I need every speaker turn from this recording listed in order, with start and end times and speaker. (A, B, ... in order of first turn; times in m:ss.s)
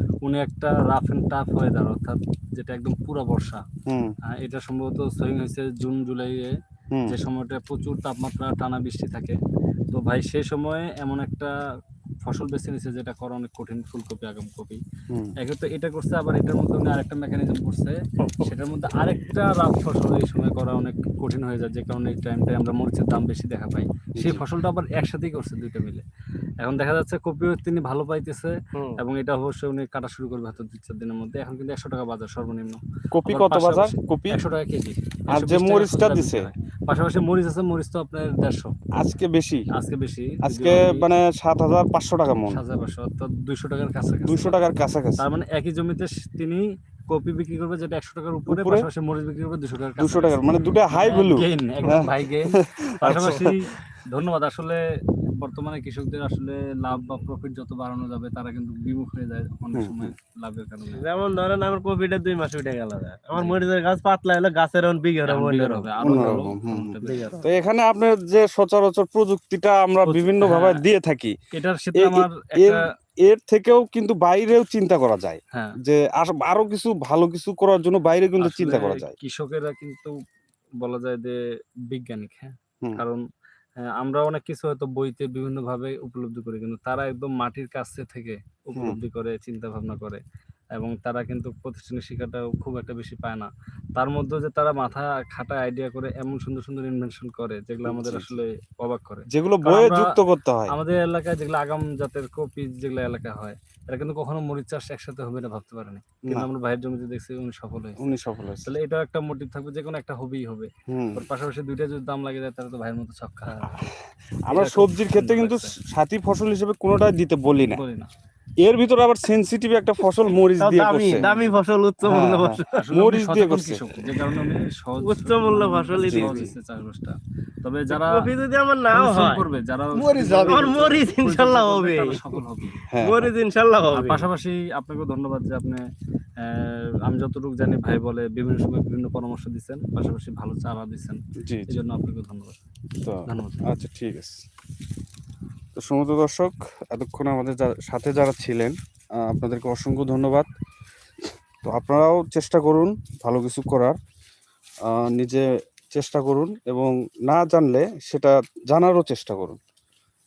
0:00.2-0:03.6 A
0:03.9-0:04.2 B
0:04.3-0:06.6 A
0:07.1-0:09.4 A
0:09.9-0:11.6 A
0:12.2-0:14.8 A
0:15.1-0:15.4 B
0:15.4-0:26.0 A
0:24.2-0:24.4 B
0:26.6-0:38.8 A
0:28.8-0:29.0 C
0:33.1-0:34.4 B
0:35.3-0:36.5 B
0:39.0-0:39.7 B
0:39.7-0:41.2 A
0:40.4-0:42.6 B
0:42.4-0:44.6 A
0:44.2-0:45.3 B
0:45.2-0:54.8 A
0:48.5-0:48.9 B
0:50.0-0:53.5 B
0:53.1-0:53.4 C
0:55.4-1:01.0 A
0:59.8-1:00.1 B
1:01.0-1:06.4 C
1:05.3-1:07.4 A
1:06.0-1:11.3 B
1:07.0-1:07.5 C
1:10.0-1:10.8 A
1:11.5-1:12.8 A
1:12.0-1:19.1 B
1:15.5-1:15.8 A
1:18.4-1:20.1 A
1:20.8-1:21.4 A
1:21.9-1:23.2 A
1:23.8-1:30.2 A
1:28.7-1:29.0 B
1:30.8-1:40.2 A
1:37.8-1:38.4 B
1:39.3-1:40.8 B
1:40.7-1:48.0 A
1:46.2-1:46.5 B
1:48.0-1:48.7 B
1:48.7-1:53.8 A
1:50.9-1:51.2 B
1:54.4-1:57.8 B
1:54.5-1:55.7 A
1:57.6-1:58.1 A
1:58.6-2:01.2 B
2:00.6-2:02.8 C
2:01.1-2:01.6 A
2:02.0-2:03.8 B
2:02.7-2:08.3 A
2:05.0-2:06.5 C
2:06.1-2:06.4 B
2:07.9-2:09.5 C
2:08.9-2:12.9 A
2:10.0-2:10.5 B
2:10.3-2:12.4 C
2:12.9-2:13.3 B
2:13.0-2:14.3 C
2:13.9-2:15.8 A
2:16.4-2:22.6 A
2:21.4-2:21.8 B
2:23.0-2:24.4 B
2:23.3-2:23.6 A
2:25.8-2:30.5 B
2:31.6-2:34.0 B
2:34.9-2:39.6 B